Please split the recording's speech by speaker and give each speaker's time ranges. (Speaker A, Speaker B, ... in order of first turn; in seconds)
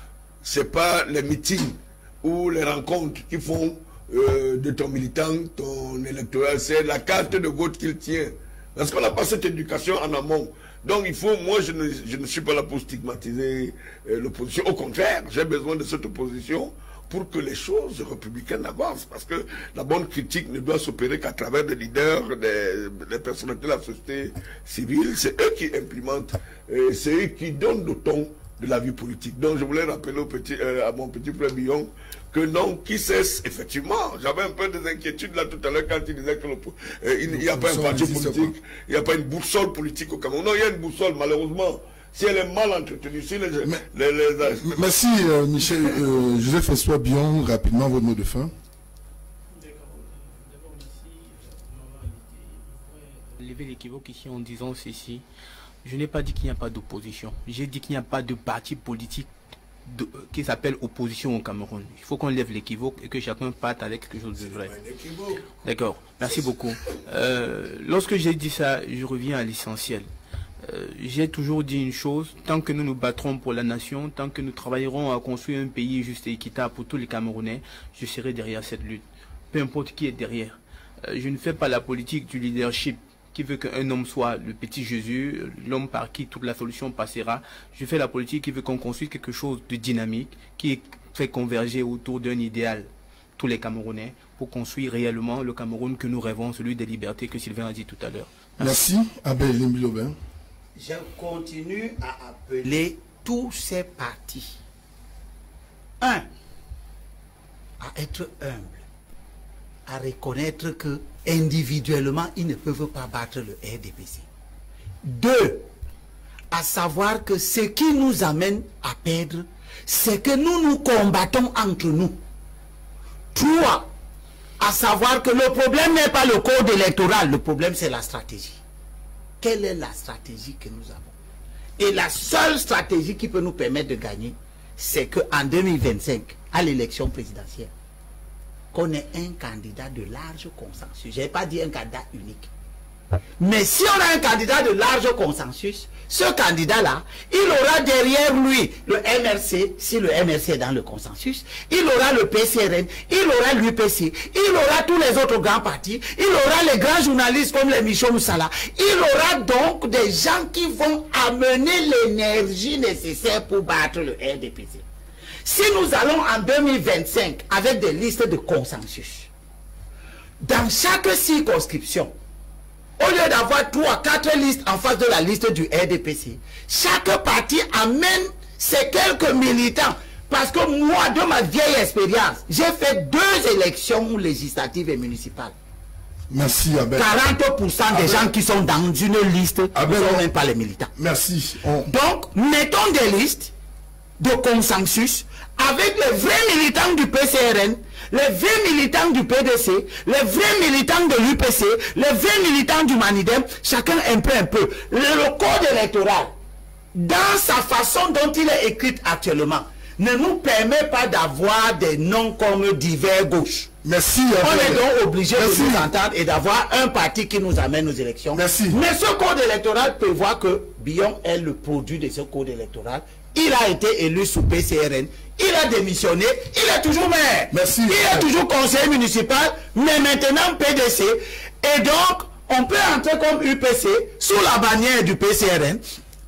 Speaker A: 0.4-44.7, 64.3-65.5
Speaker B: 37.3-38.5, 44.5-48.5, 98.6-100.1, 186.3-187.1, 187.9-188.3, 189.7-190.2, 190.9-191.9, 213.8-215.9, 218.3-218.8, 227.5-228.3
Speaker C: 49.5-55.2, 55.8-59.3, 59.9-64.7, 65.5-70.1, 70.6-98.4
Speaker D: 100.8-104.6, 106.0-106.3, 107.8-108.8, 109.9-114.2, 115.0-115.7, 116.5-122.2, 123.3-123.9, 124.6-128.6, 129.4-131.1, 131.8-137.7, 138.7-142.5, 143.4-164.8, 165.4-169.3, 170.4-172.1, 173.0-185.5, 186.9-190.9, 191.9-193.5, 194.2-206.3, 206.9-213.7, 214.4-235.8